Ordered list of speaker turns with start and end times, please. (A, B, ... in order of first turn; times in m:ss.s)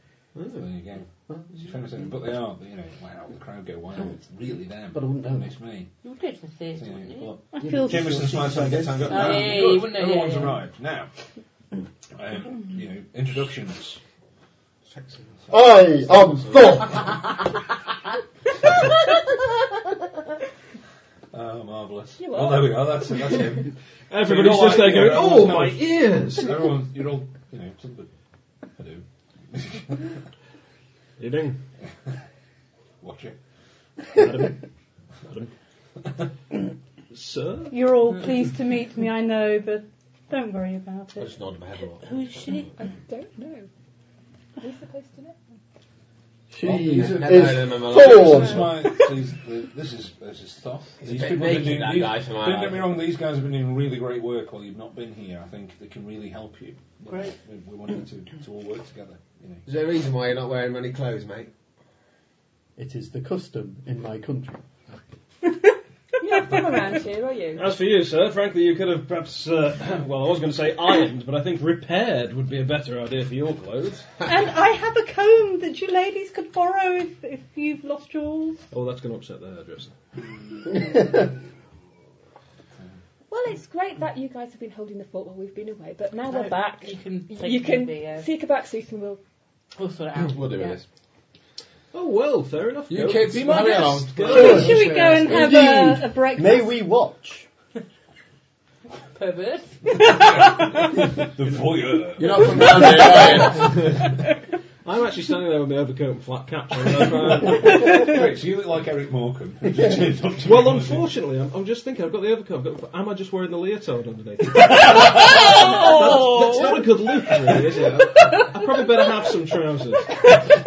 0:00.3-0:00.6 A
0:00.5-0:05.9 B
0:04.9-0:05.5 C
0:06.0-0:07.3 D
0:06.7-0:11.1 B
0:07.5-0:08.4 E
0:07.6-0:09.5 C
0:09.1-0:10.6 D
0:12.2-0:14.0 B
0:14.9-0:17.0 A
0:15.5-0:17.2 C
0:18.6-0:18.9 B
0:21.3-0:28.1 B
0:22.2-0:23.5 F
0:24.1-0:26.5 G
0:28.8-0:30.1 B
0:31.2-0:31.6 G
0:33.0-0:33.4 B
0:34.1-0:34.6 G
0:37.1-0:37.8 G
0:37.7-0:41.3 E
0:41.1-0:42.3 A
0:42.0-0:42.7 D
0:42.8-0:43.7 F
0:44.6-0:45.4 F
0:46.5-0:48.8 C
0:46.6-0:59.6 B
0:46.7-0:48.8 A
0:51.0-0:53.1 A
0:57.1-0:57.3 D
0:59.6-1:01.5 A
1:02.8-1:04.6 C
1:06.2-1:07.7 F
1:07.5-1:14.1 G
1:14.2-1:18.6 E
1:18.7-1:19.9 G
1:23.3-1:29.2 F
1:26.2-1:28.3 D
1:29.8-1:30.8 D
1:30.2-1:30.8 A
1:31.9-1:34.8 G
1:32.9-1:35.5 A
1:33.3-1:33.8 B
1:34.2-1:36.8 E
1:35.3-1:37.5 C
1:39.1-1:39.8 D
1:40.1-1:43.1 B
1:40.2-1:40.8 E
1:42.2-1:44.0 A
1:44.8-1:47.9 G
1:47.4-1:51.1 B
1:50.4-2:00.1 G
1:54.8-1:56.9 E